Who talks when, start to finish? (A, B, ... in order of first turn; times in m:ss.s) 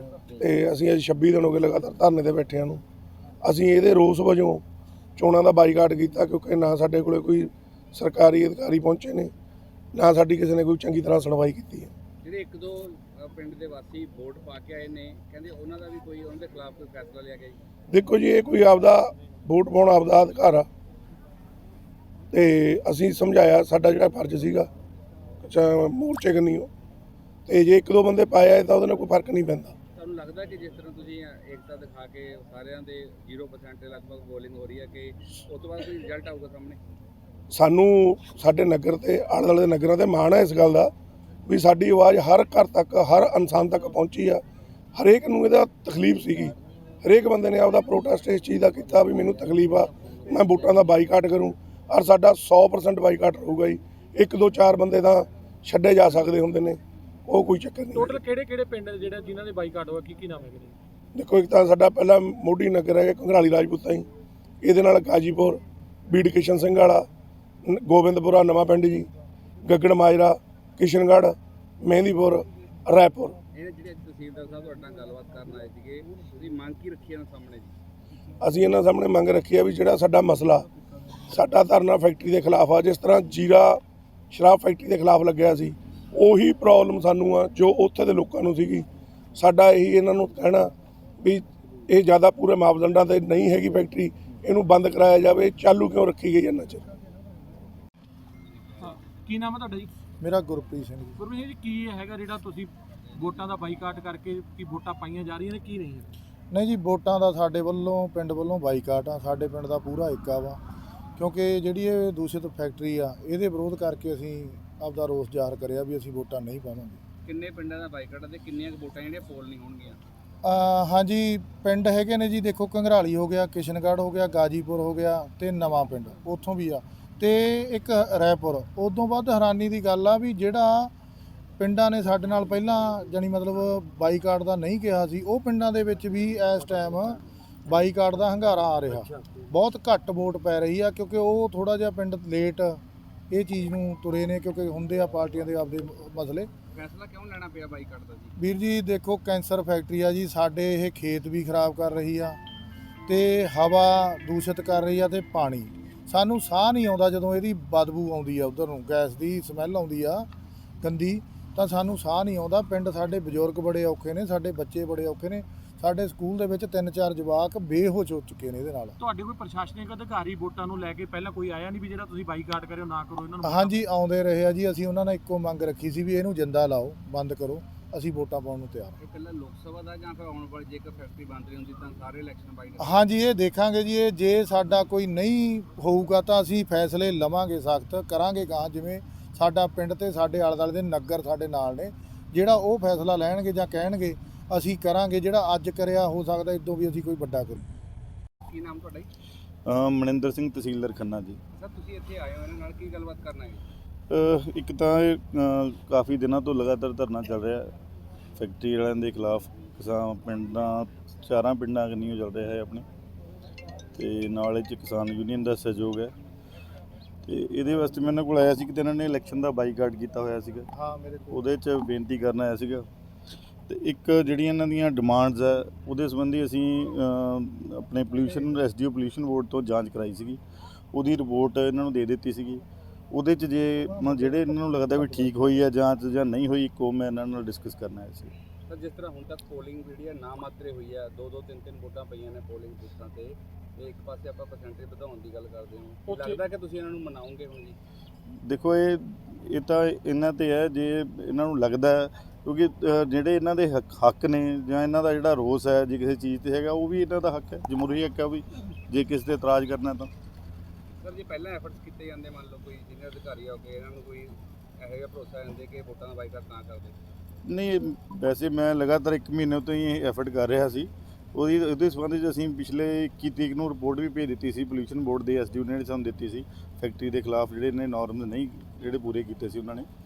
0:00.4-0:02.8 A
0:03.4-0:04.6 A
0:05.2-0:09.3 A
0:09.9-0:11.9 A
0:12.2-0:17.6 B
0:17.9-0:20.7 A
0:22.3-0:24.7 A
0:25.4-0:26.7 A
0:27.5-0:29.7 A
0:30.0-0:36.8 B
0:37.5-0:40.9 A
0:41.5-0:44.4 A
0:45.0-0:58.1 A
0:57.9-1:00.8 C
1:01.1-1:04.1 A
1:04.6-1:07.1 A
1:07.6-1:09.1 A
1:09.6-1:13.4 A
1:13.5-1:17.7 B
1:18.4-1:20.6 A
1:21.3-1:23.8 A
1:24.3-1:36.8 A
1:38.8-1:39.9 C
1:40.2-1:41.2 D
1:41.2-1:46.1 C
1:46.5-1:50.6 D
1:51.2-1:57.0 D
1:57.2-2:00.0 B
2:00.4-2:10.9 D
2:11.6-2:26.5 D
2:26.7-2:28.3 B
2:28.4-2:32.4 D
2:33.0-2:40.3 D
2:40.8-2:49.0 D
2:49.0-2:53.7 C
2:53.4-2:59.0 D
2:59.0-3:03.1 B
3:02.8-3:17.7 D
3:18.5-3:19.1 B
3:19.6-3:21.4 E
3:21.5-3:23.6 B
3:24.1-3:27.7 E
3:28.4-3:32.8 E
3:33.9-3:36.1 E
3:37.2-3:40.7 E
3:40.7-3:41.5 D
3:41.3-3:42.9 E
3:43.7-3:50.4 E
3:50.9-3:58.3 E
3:54.0-3:55.4 D
3:58.7-4:07.8 B
4:06.1-4:06.4 C
4:08.4-4:20.1 E
4:21.0-4:27.0 B
4:27.4-4:39.9 E